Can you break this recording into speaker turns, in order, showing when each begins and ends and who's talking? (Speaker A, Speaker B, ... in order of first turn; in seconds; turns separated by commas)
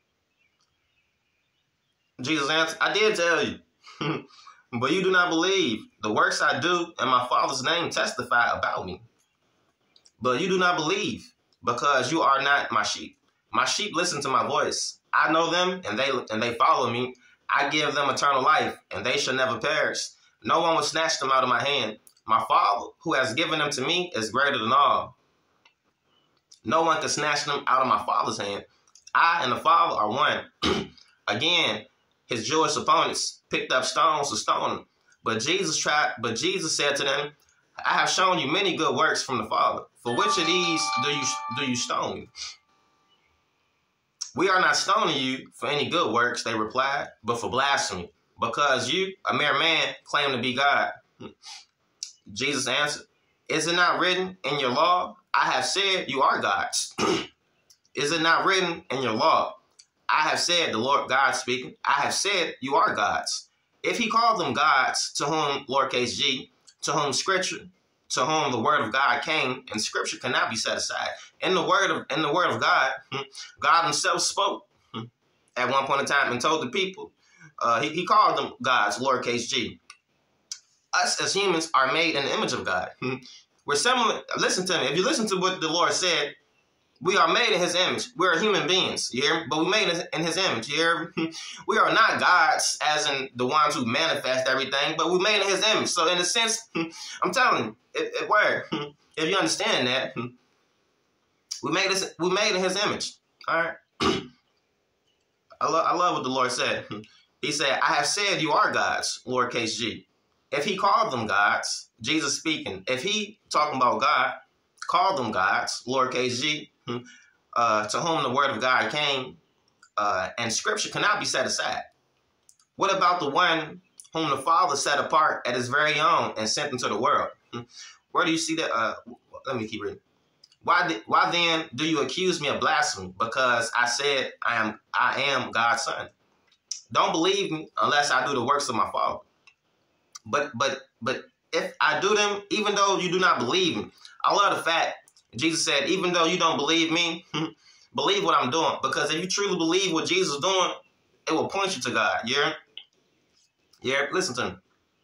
Speaker A: 2.2-9.1, Speaker A: 10.2-25.1, Speaker A: 26.6-42.3, Speaker A: 44.3-51.0, Speaker A: 52.3-57.2, Speaker A: 57.9-75.0, Speaker A: 75.5-79.8, Speaker A: 80.9-86.3, Speaker A: 87.0-100.3, Speaker A: 101.6-104.3, Speaker A: 105.6-114.4, Speaker A: 114.9-117.0, Speaker A: 117.5-119.4, Speaker A: 120.0-121.9, Speaker A: 122.8-127.4, Speaker A: 128.1-130.0, Speaker A: 130.6-136.1, Speaker A: 136.9-139.2, Speaker A: 140.2-152.5, Speaker A: 153.8-154.6